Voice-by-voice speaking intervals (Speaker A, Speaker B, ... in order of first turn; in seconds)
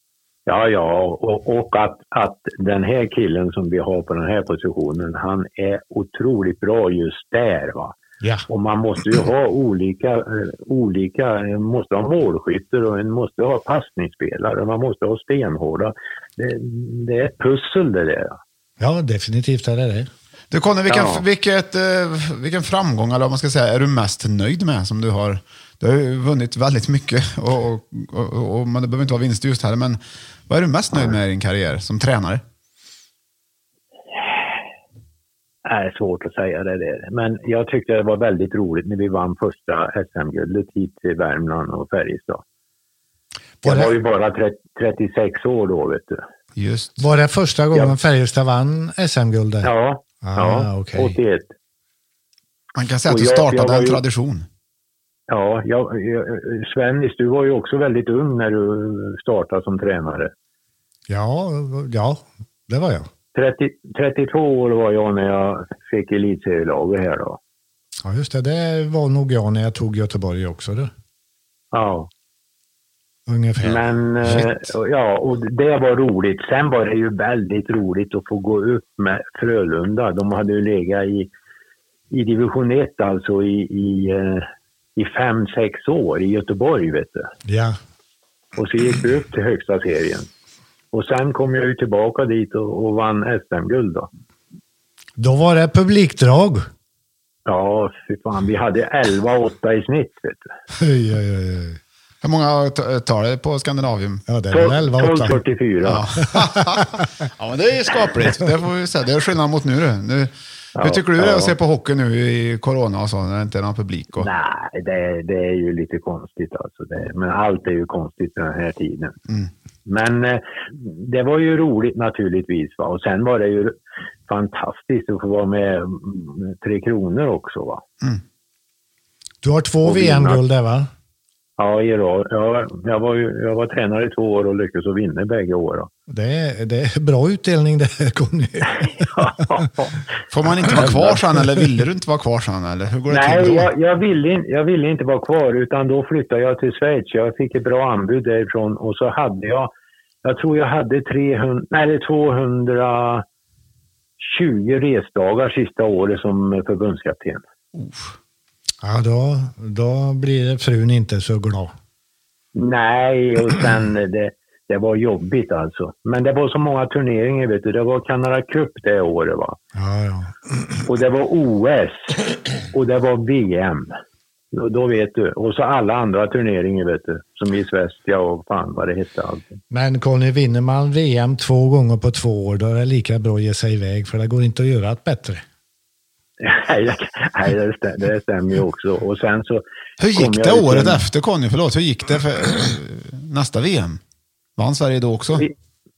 Speaker A: 0.5-8.0, 8.5-18.4, 20.9-21.2, 35.6-42.4, 43.6-46.2, 49.6-51.5, 53.0-54.0, 55.3-60.3, 63.3-67.4, 71.7-72.1, 73.6-81.3, 82.1-87.3, 88.5-90.3, 90.9-94.1, 97.5-100.5, 104.5-106.0, 110.8-111.5, 114.2-119.2, 119.8-127.8, 129.8-130.4, 131.6-135.9, 139.0-140.0, 140.7-141.2, 143.1-149.7, 150.2-153.2, 154.2-157.4, 162.6-169.6, 170.9-173.9, 174.5-179.5, 186.4-191.0
Speaker B: 18.8-20.1, 43.6-43.9, 47.0-49.7, 50.2-51.1, 61.1-63.1, 68.0-70.9, 73.3-73.8, 87.5-87.8, 95.2-96.7, 100.8-101.8, 104.3-105.4, 106.3-107.0, 129.4-130.9, 136.1-139.1, 158.8-161.7, 169.7-170.8, 179.7-185.4
Speaker C: 20.5-32.4, 46.5-47.0, 52.8-54.5, 74.2-74.5, 102.2-104.2, 105.8-114.3, 140.3-143.7, 157.7-158.2, 190.0-194.0, 194.6-195.4